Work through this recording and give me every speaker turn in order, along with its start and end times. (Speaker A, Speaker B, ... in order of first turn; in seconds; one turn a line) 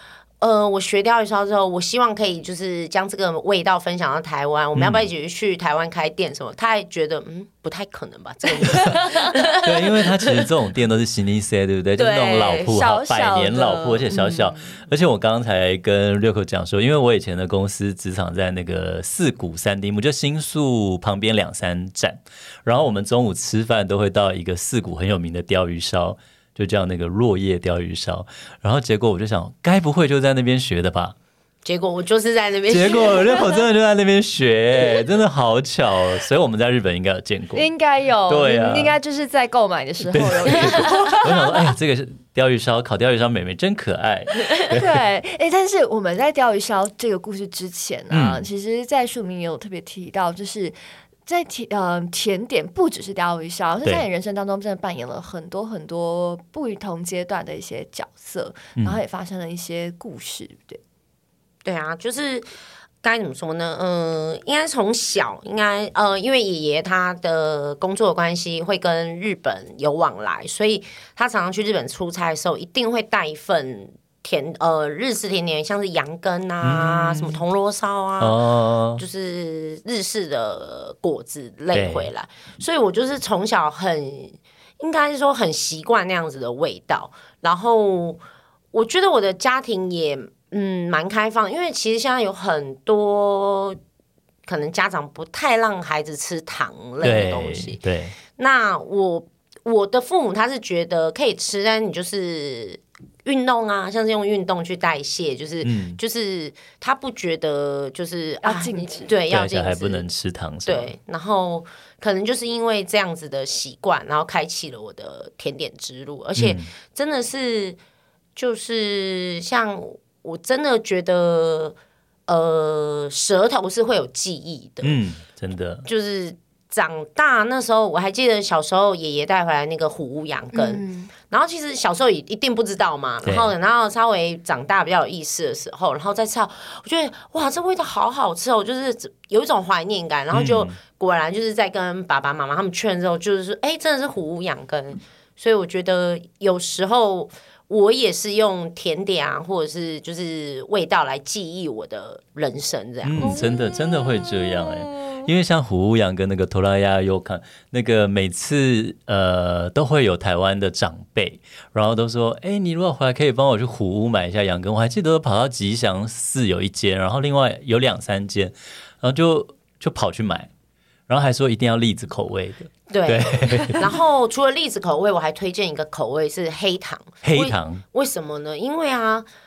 Speaker A: 0.4-10.5
Speaker B: 4.8-5.1
Speaker B: 9.5-31.1
Speaker A: 12.0-12.8
Speaker C: 12.7-14.8
Speaker A: 31.6-33.5
Speaker B: 32.7-37.6
Speaker C: 37.5-41.6
Speaker B: 38.3-39.0
Speaker B: 40.1-45.0
Speaker C: 44.5-60.8
Speaker B: 48.1-48.5
Speaker A: 61.6-62.5
Speaker A: 63.0-78.4
Speaker B: 76.6-77.4
Speaker B: 78.2-79.0
Speaker A: 79.0-88.2
Speaker B: 81.7-82.1
Speaker A: 88.7-93.8
Speaker A: 94.5-97.8
Speaker B: 97.0-98.2
Speaker A: 98.4-110.1
Speaker B: 105.6-106.0
Speaker C: 108.4-109.1
Speaker B: 109.3-110.9
Speaker A: 110.7-117.8
Speaker B: 116.4-116.7
Speaker A: 118.4-121.8
Speaker A: 122.3-125.0
Speaker B: 124.8-125.9
Speaker A: 125.8-153.4
Speaker C: 130.5-131.1
Speaker B: 133.2-133.5
Speaker B: 140.3-140.8
Speaker B: 153.0-170.5
Speaker C: 153.2-155.3
Speaker B: 171.1-173.9
Speaker A: 172.9-179.3
Speaker B: 177.2-177.8